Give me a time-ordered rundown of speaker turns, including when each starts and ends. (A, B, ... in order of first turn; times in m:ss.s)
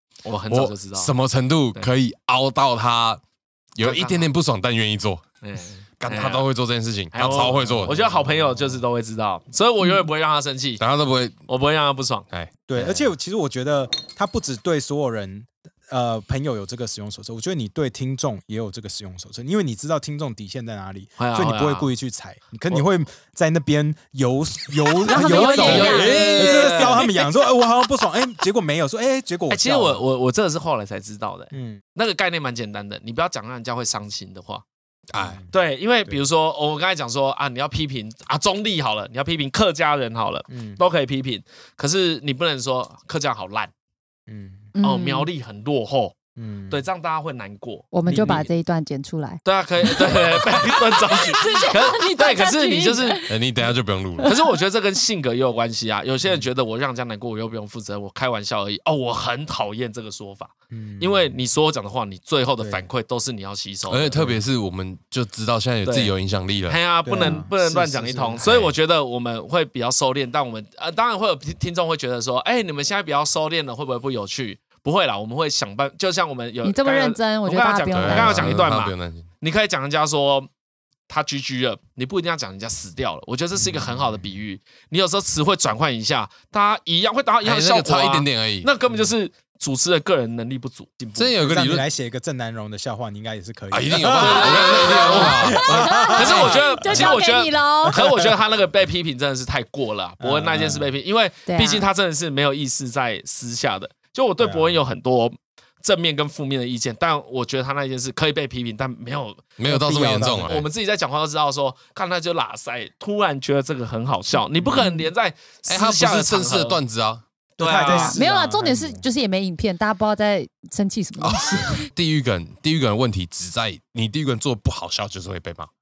0:00.2-0:01.1 A
0:00.5-0:03.2 B
0:03.8-0:05.2 B
0:03.8-0:04.3 A
0:05.4-0:06.5 A
0:06.0-0:08.3 B
0:07.1-0:10.8 A
0:07.7-0:08.1 C
0:10.8-0:11.4 B
0:11.5-0:12.3 A
0:12.3-0:13.0 B
0:12.7-0:30.0 C
0:21.2-0:21.9 A
0:25.1-0:26.7 D
0:25.2-0:27.0 B
0:25.6-0:27.1 A
0:29.5-0:34.6 A
0:31.5-0:31.8 C
0:35.1-0:35.4 B
0:35.2-0:35.5 C
0:35.5-0:43.7 A
0:40.5-0:40.8 C
0:44.3-0:44.7 C
0:44.8-0:45.3 D
0:44.8-0:46.2 A
0:46.4-0:46.9 C
0:46.7-0:47.9 A
0:47.9-0:49.4 D
0:48.0-0:48.5 C
0:49.4-0:53.2 A
0:50.8-0:53.3 D
0:53.3-0:54.3 B
0:54.2-1:04.3 A
0:56.2-0:56.5 C
1:00.7-1:01.4 C
1:02.6-1:02.9 C
1:03.9-1:06.8 B
1:05.8-1:06.1 A
1:06.7-1:20.5 A
1:07.0-1:08.5 C
1:07.2-1:07.5 D
1:08.4-1:08.7 B
1:16.6-1:18.6 D
1:17.9-1:19.3 B
1:21.1-1:31.4 A
1:23.6-1:24.2 C
1:27.4-1:28.7 B
1:31.2-1:31.9 B
1:31.4-1:37.1 C
1:33.7-1:36.6 B
1:34.0-1:49.5 A
1:34.4-1:38.0 D
1:37.9-1:38.3 C
1:40.2-1:40.9 C
1:41.5-1:41.9 D
1:44.4-1:44.8 C
1:49.6-1:50.6 B
1:49.6-1:50.6 C
1:50.2-1:56.8 A
1:54.6-1:54.9 C
1:54.8-1:55.1 D
1:55.7-1:57.2 B
1:57.6-1:58.2 A
1:57.6-1:59.1 C
1:57.9-2:01.8 D
2:01.2-2:05.7 B